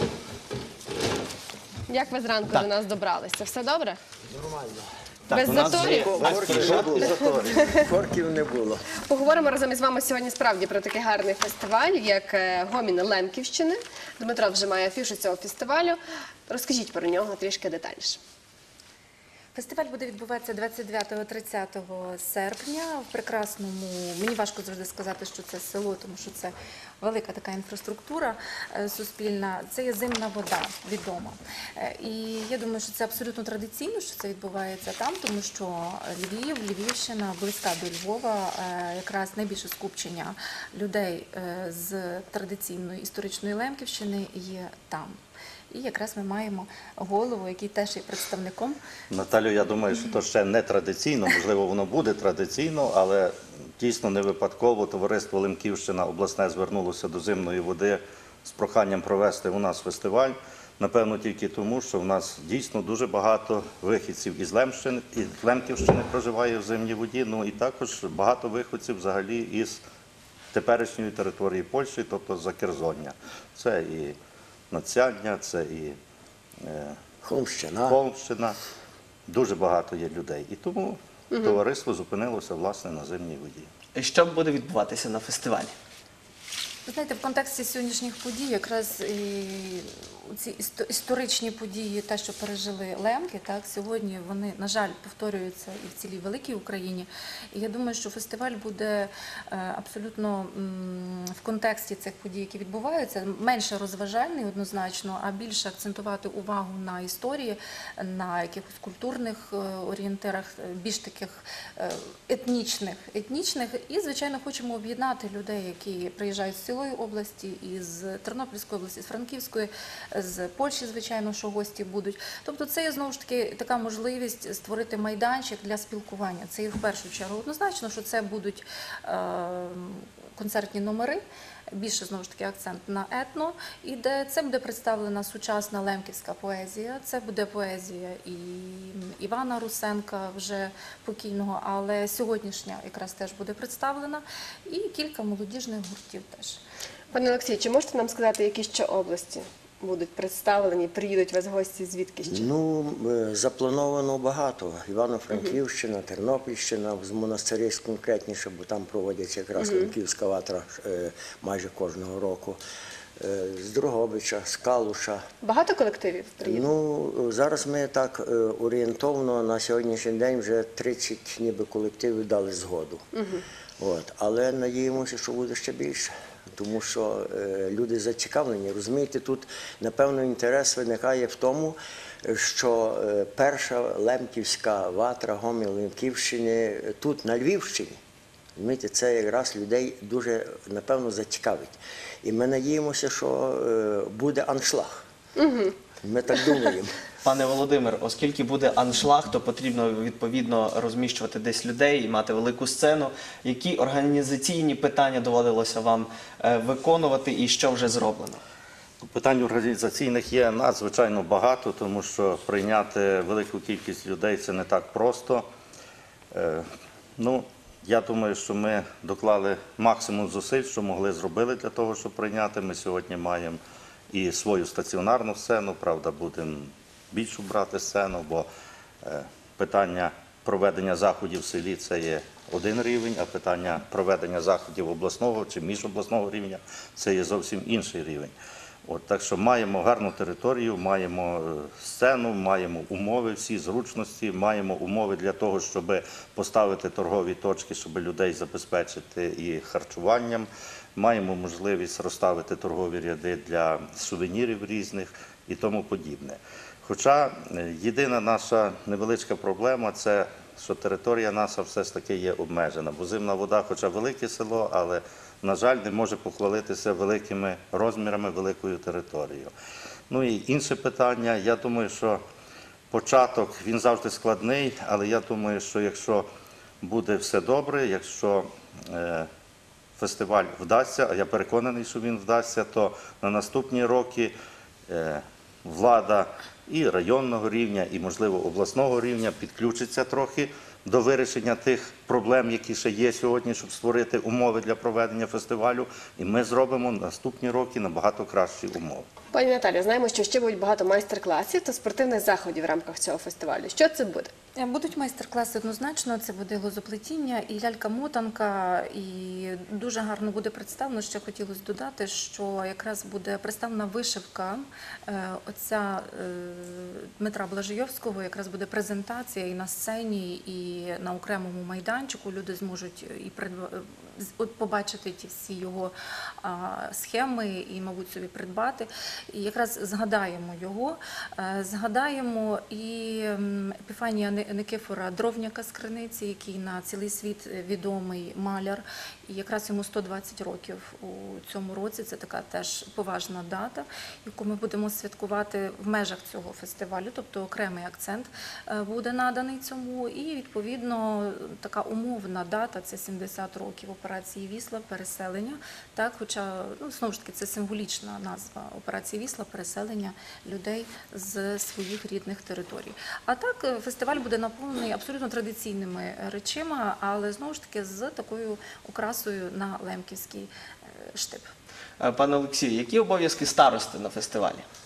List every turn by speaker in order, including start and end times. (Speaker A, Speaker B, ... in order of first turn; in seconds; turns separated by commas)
Speaker A: 1.9-4.0, Speaker B: 4.3-4.9, Speaker C: 5.3-6.9, Speaker A: 5.3-6.1, Speaker B: 5.7-8.9, Speaker D: 6.1-7.6, Speaker A: 6.9-7.8, Speaker A: 8.9-18.2, Speaker E: 19.5-45.2, Speaker E: 45.7-48.8, Speaker D: 49.1-69.8, Speaker D: 70.5-74.2, Speaker D: 74.7-76.0, Speaker D: 76.6-77.0, Speaker B: 77.2-78.0, Speaker D: 77.9-78.5, Speaker D: 79.3-83.7, Speaker A: 81.3-81.6, Speaker C: 83.9-85.7, Speaker E: 86.8-146.6, Speaker A: 147.1-152.5, Speaker B: 152.3-162.6, Speaker A: 159.6-159.9, Speaker B: 163.2-165.2, Speaker A: 165.4-166.7, Speaker B: 166.4-173.0, Speaker A: 173.1-173.4, Speaker B: 173.8-188.0, Speaker B: 188.6-195.0, Speaker A: 195.4-195.7, Speaker B: 196.0-197.0, Speaker C: 197.2-208.4, Speaker D: 209.0-215.5, Speaker D: 216.3-216.7, Speaker D: 217.2-223.6, Speaker D: 224.1-228.5, Speaker D: 229.0-238.3, Speaker D: 238.8-269.5, Speaker D: 270.1-272.2, Speaker D: 272.9-276.3, Speaker D: 276.8-279.3, Speaker D: 280.0-284.3, Speaker D: 284.9-299.1, Speaker A: 299.3-304.3, Speaker E: 304.5-371.5, Speaker C: 372.0-374.6